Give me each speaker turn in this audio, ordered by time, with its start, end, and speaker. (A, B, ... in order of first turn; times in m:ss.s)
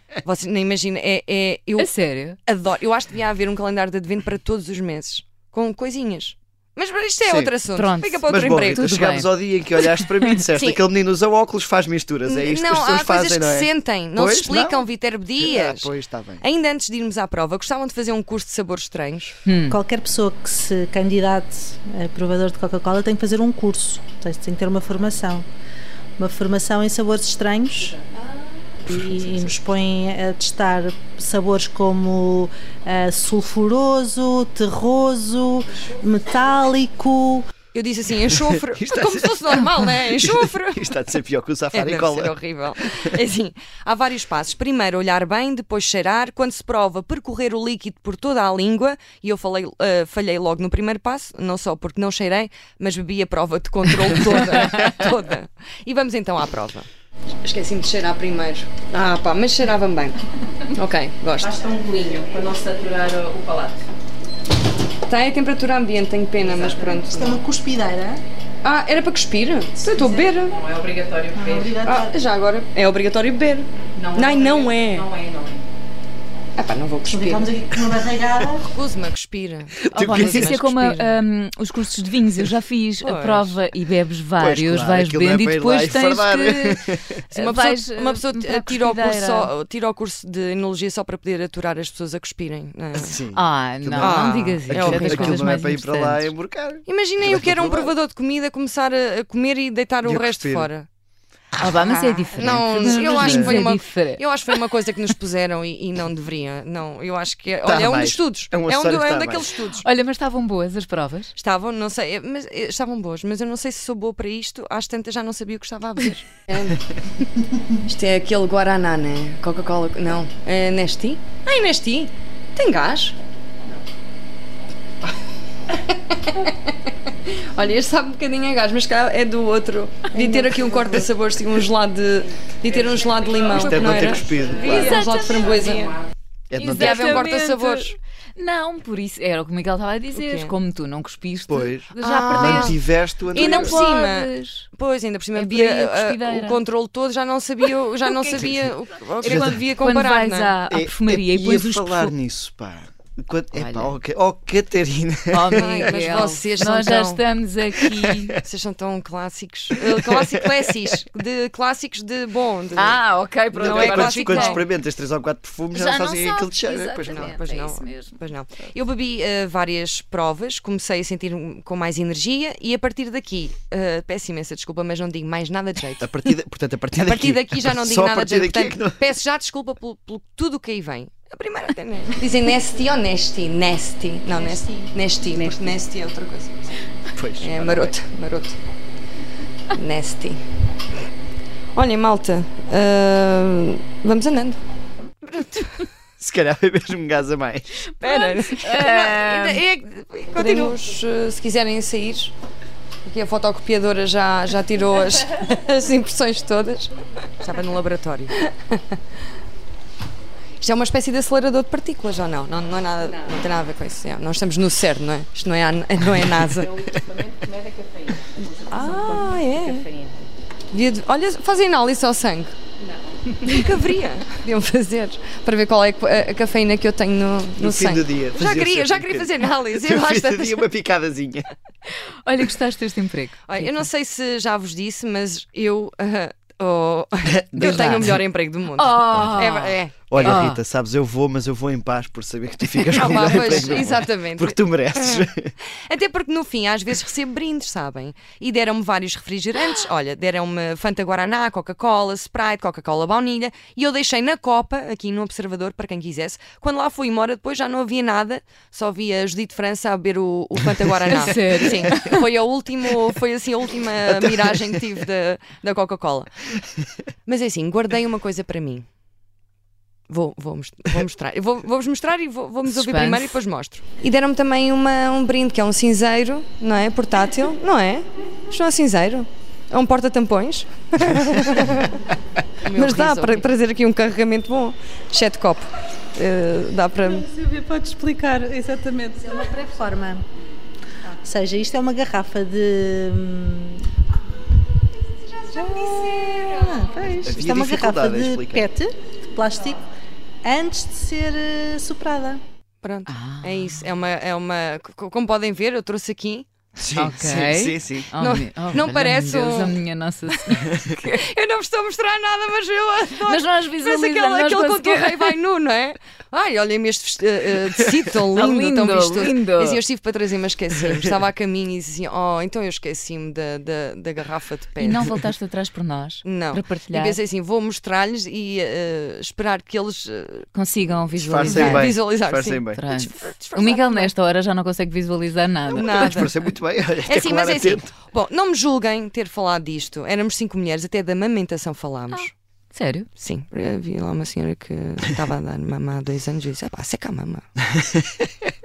0:00.2-0:01.9 A
0:01.8-0:02.4 B
0:02.4-0:09.0 A
0:07.2-0:07.6 C
0:07.7-0:10.4 B
0:08.3-0:16.4 C
0:10.5-0:10.8 A
0:12.2-0:19.3 A
0:19.4-0:19.8 B
0:19.7-0:25.4 D
0:26.2-0:28.0 D
0:28.1-0:28.9 A
0:28.8-0:37.5 D
0:28.9-0:29.5 C
0:37.7-0:40.9 A
0:38.7-0:42.4 C
0:41.7-0:56.9 A
0:57.4-1:01.5 A
1:01.4-1:03.8 E
1:05.0-1:07.4 A
1:06.4-1:06.9 E
1:07.0-1:08.2 D
1:08.6-1:10.6 A
1:10.5-1:11.8 E
1:11.3-1:12.1 D
1:11.8-1:15.1 A
1:13.9-1:15.6 E
1:16.6-1:17.5 A
1:17.1-1:18.6 D
1:18.6-1:21.2 A
1:19.9-1:20.6 C
1:19.9-1:29.5 B
1:23.0-1:23.6 A
1:24.4-1:27.2 C
1:27.3-1:33.1 A
1:33.0-1:37.9 C
1:33.3-1:36.3 B
1:34.0-1:35.5 A
1:36.8-1:40.9 A
1:40.0-1:40.7 C
1:41.6-1:44.2 B
1:41.7-1:49.8 A
1:42.4-1:43.7 C
1:47.6-1:49.5 C
1:49.8-1:51.3 B
1:51.3-1:56.8 A
1:57.8-2:03.2 A
2:05.8-2:06.7 A
2:07.2-2:16.0 A
2:10.2-2:10.7 D
2:13.5-2:15.0 C
2:14.6-2:15.6 B
2:16.5-2:17.3 C
2:16.6-2:24.7 B
2:16.6-2:18.0 A
2:20.1-2:20.5 A
2:21.5-2:23.8 C
2:22.0-2:22.8 A
2:23.3-2:30.5 A
2:25.3-2:26.6 B
2:28.0-2:28.5 B
2:28.3-2:28.7 C
2:29.2-2:32.1 B
2:29.2-2:29.6 C
2:30.7-2:35.9 C
2:33.5-2:34.0 B
2:35.3-2:38.4 B
2:35.5-2:37.2 A
2:37.8-2:38.3 C
2:38.4-2:43.0 A
2:40.0-2:40.6 C
2:42.7-2:44.6 B
2:43.5-2:47.4 C
2:43.6-2:44.6 A
2:45.7-2:48.2 B
2:47.0-2:56.4 A
2:56.0-2:59.0 C
2:57.0-3:06.7 A
3:05.3-3:05.8 E
3:07.1-3:08.0 C
3:07.4-3:08.6 A
3:09.7-3:10.4 A
3:11.7-3:14.6 A
3:15.2-3:15.8 A
3:16.2-3:17.9 C
3:17.9-3:22.3 A
3:18.0-3:19.6 B
3:20.4-3:20.8 B
3:23.0-3:29.0 A
3:30.6-3:36.9 A
3:36.6-3:40.3 E
3:38.7-3:39.9 A
3:40.7-3:42.5 A
3:43.4-3:50.7 A
3:47.6-3:51.5 C
3:51.9-3:53.8 B
3:53.5-4:00.4 A
3:57.2-3:58.2 C
3:57.6-3:58.2 B
3:58.7-4:00.6 B
4:00.1-4:05.5 C
4:02.9-4:26.3 A
4:21.1-4:22.3 B
4:24.1-4:24.7 C
4:27.2-4:28.8 A
4:30.1-4:42.0 A
4:32.6-4:33.4 B
4:42.6-4:47.3 A
4:42.8-4:43.3 B
4:47.3-4:50.2 D
4:51.2-4:53.8 D
4:55.2-4:57.0 A
4:55.5-4:59.8 D
4:57.2-4:58.6 C
5:00.4-5:02.4 D
5:02.8-5:06.5 A
5:03.1-5:03.8 B
5:06.8-5:08.1 C
5:06.9-5:11.2 B
5:08.2-5:09.8 A
5:11.0-5:25.1 A
5:13.2-5:15.4 B
5:18.3-5:19.8 B
5:24.8-5:27.2 B
5:26.2-5:30.5 A
5:30.5-5:31.9 B
5:31.2-5:32.8 C
5:31.4-5:34.1 A
5:32.7-5:36.3 B
5:35.7-5:36.3 A
5:35.7-5:37.9 C
5:37.0-5:42.3 A
5:42.1-5:43.1 B
5:43.1-5:47.4 A